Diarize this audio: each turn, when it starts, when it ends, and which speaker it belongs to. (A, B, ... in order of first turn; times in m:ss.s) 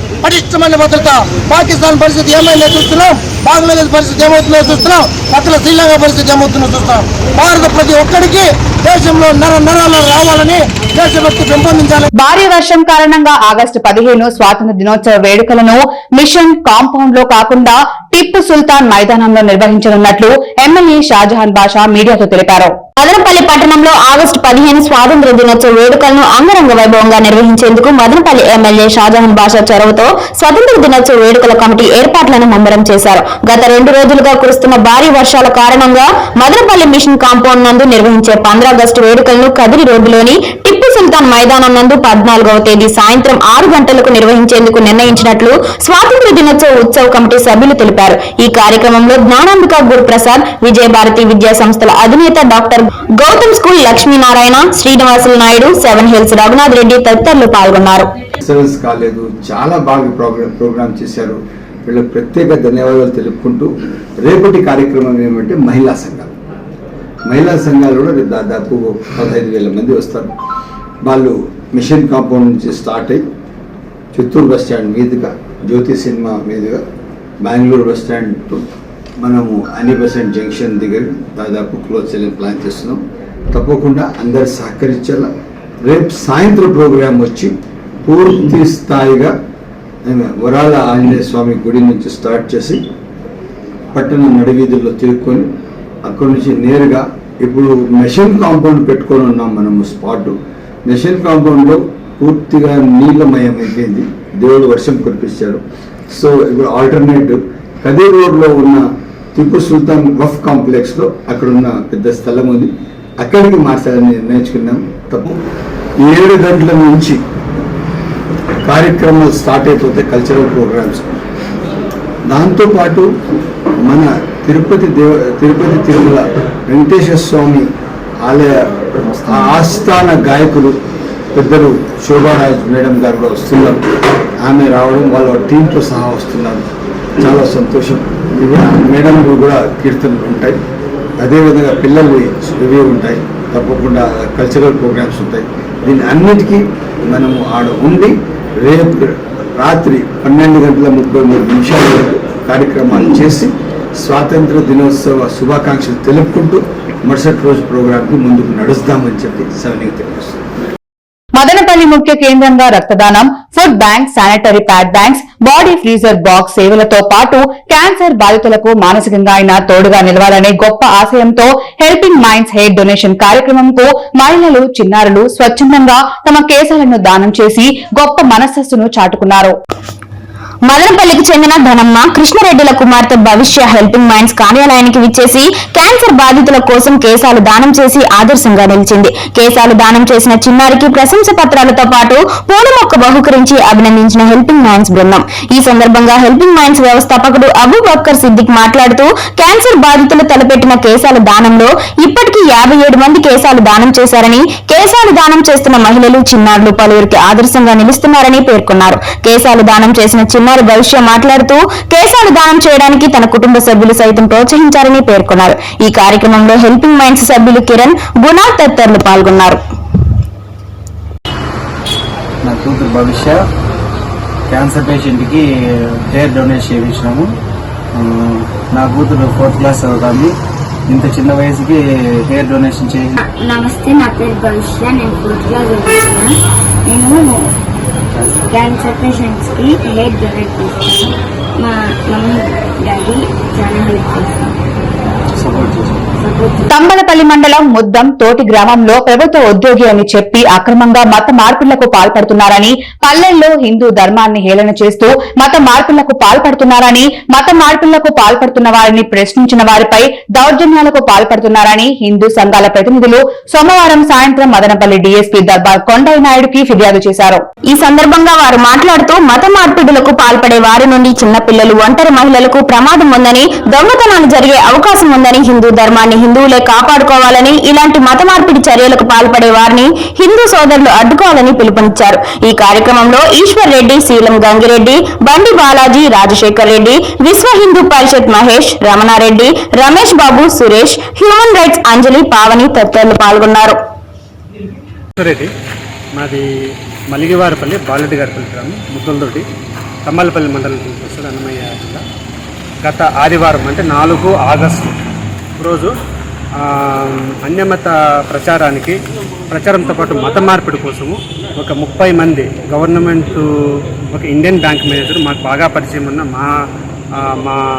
0:00.2-0:12.1 A
0:12.2-0:22.7 B
0:23.0-0:58.1 C
0:58.4-1:06.3 D
1:07.3-1:10.3 D
1:11.0-1:13.2 D
1:14.1-1:16.8 D
1:17.4-1:18.6 D
1:19.2-1:25.3 D
1:25.8-1:27.5 D
1:28.0-1:29.3 D
1:30.0-1:32.8 D
1:33.9-1:35.5 D
1:36.0-1:55.3 D
1:56.0-1:57.2 D
1:58.6-2:01.2 D
2:02.3-2:03.1 D
2:03.8-2:07.7 D
2:08.2-2:10.8 D
2:11.3-2:13.8 D
2:14.4-2:16.6 D
2:17.2-2:20.6 D
2:21.2-2:40.4 D
2:41.4-2:59.6 B
3:00.6-3:39.6 C
3:42.4-3:43.5 E
3:44.5-3:47.4 E
3:47.9-3:50.4 E
3:50.9-3:53.1 E
3:53.2-3:56.3 F
3:56.8-3:57.3 F
3:58.1-3:58.4 E
3:58.4-4:04.6 F
4:05.3-4:06.1 E
4:06.2-4:06.7 F
4:06.7-4:27.4 B
4:27.7-4:53.8 C
4:55.2-4:55.5 G
4:56.2-4:56.4 G
4:57.1-4:59.4 G
5:00.0-5:02.0 G
5:02.8-5:04.9 G
5:05.6-5:05.9 G
5:06.6-5:09.0 G
5:09.5-5:13.4 G
5:14.1-5:16.5 G
5:17.2-5:17.6 G